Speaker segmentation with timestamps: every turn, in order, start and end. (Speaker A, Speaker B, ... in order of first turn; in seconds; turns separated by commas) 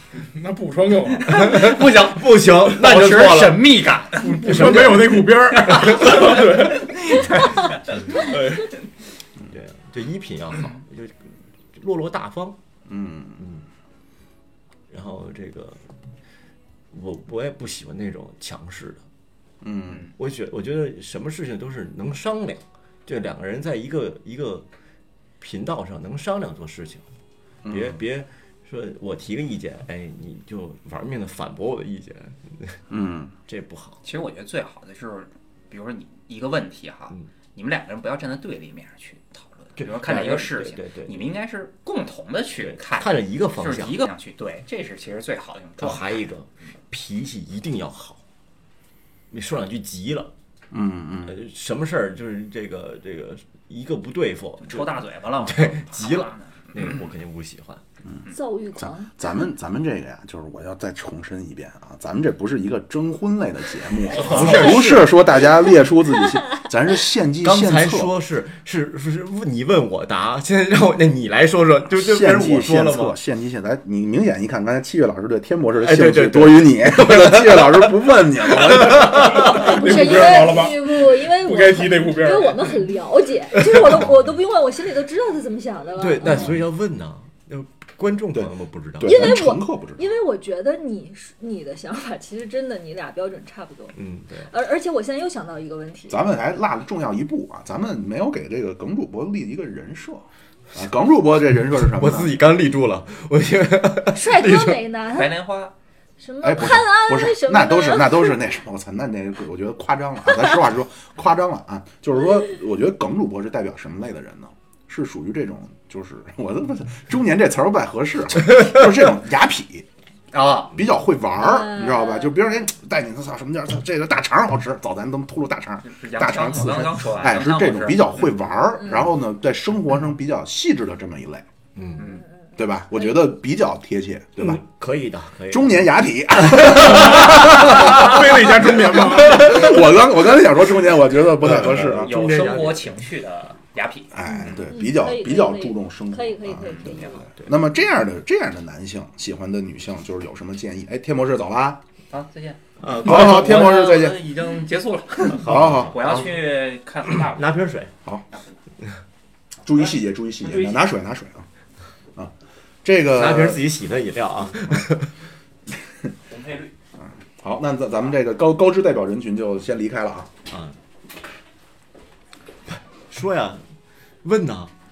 Speaker A: 0.2-1.4, Speaker B: 1.1-8.0, Speaker C: 1.3-3.8, Speaker A: 4.2-7.2, Speaker C: 4.4-5.2, Speaker A: 8.1-8.7, Speaker C: 9.5-12.6, Speaker D: 12.9-13.4, Speaker C: 14.9-15.8, Speaker C: 16.9-19.0, Speaker D: 19.6-20.1, Speaker C: 20.1-24.6, Speaker C: 25.4-27.0, Speaker D: 27.6-28.0, Speaker C: 27.7-32.8, Speaker D: 32.9-33.3, Speaker C: 33.5-34.0, Speaker B: 34.0-46.3, Speaker C: 39.8-41.2, Speaker C: 42.6-44.1, Speaker C: 45.8-48.2, Speaker C: 49.3-50.3, Speaker D: 50.7-51.4, Speaker C: 51.2-57.8, Speaker B: 54.6-57.0, Speaker E: 58.3-59.2, Speaker D: 58.8-68.1, Speaker B: 64.1-65.0, Speaker C: 64.1-65.1, Speaker C: 67.4-73.2, Speaker D: 71.9-79.6, Speaker C: 75.8-79.7, Speaker E: 79.3-86.6, Speaker A: 79.5-82.8, Speaker C: 83.6-84.1, Speaker C: 86.0-89.3, Speaker D: 88.3-90.0, Speaker E: 89.0-96.2, Speaker C: 93.9-94.5, Speaker D: 96.1-102.4, Speaker C: 101.8-104.8, Speaker E: 104.1-105.4, Speaker B: 105.1-105.7, Speaker E: 106.2-108.4, Speaker D: 106.4-119.8, Speaker B: 120.3-120.8, Speaker D: 120.7-131.5, Speaker E: 121.4-122.6, Speaker B: 125.8-128.3, Speaker C: 131.7-132.1, Speaker B: 132.0-132.2, Speaker E: 132.1-132.5, Speaker D: 132.6-134.6, Speaker C: 134.4-135.9, Speaker D: 135.5-142.1, Speaker C: 136.6-138.0, Speaker A: 137.1-139.8, Speaker C: 139.3-139.6, Speaker C: 141.4-143.0, Speaker B: 141.4-144.5, Speaker D: 144.1-151.8, Speaker E: 144.3-147.3, Speaker B: 146.7-147.3, Speaker B: 152.1-157.7, Speaker C: 152.8-153.8, Speaker D: 153.0-154.3, Speaker C: 155.2-156.5, Speaker D: 155.3-156.0, Speaker C: 157.2-157.9, Speaker B: 158.3-158.6, Speaker D: 159.6-161.5, Speaker B: 160.4-160.9, Speaker D: 162.8-163.7, Speaker C: 163.1-165.1, Speaker B: 166.3-166.7, Speaker D: 167.0-170.3, Speaker C: 170.5-170.8, Speaker C: 172.7-173.6, Speaker C: 174.2-174.7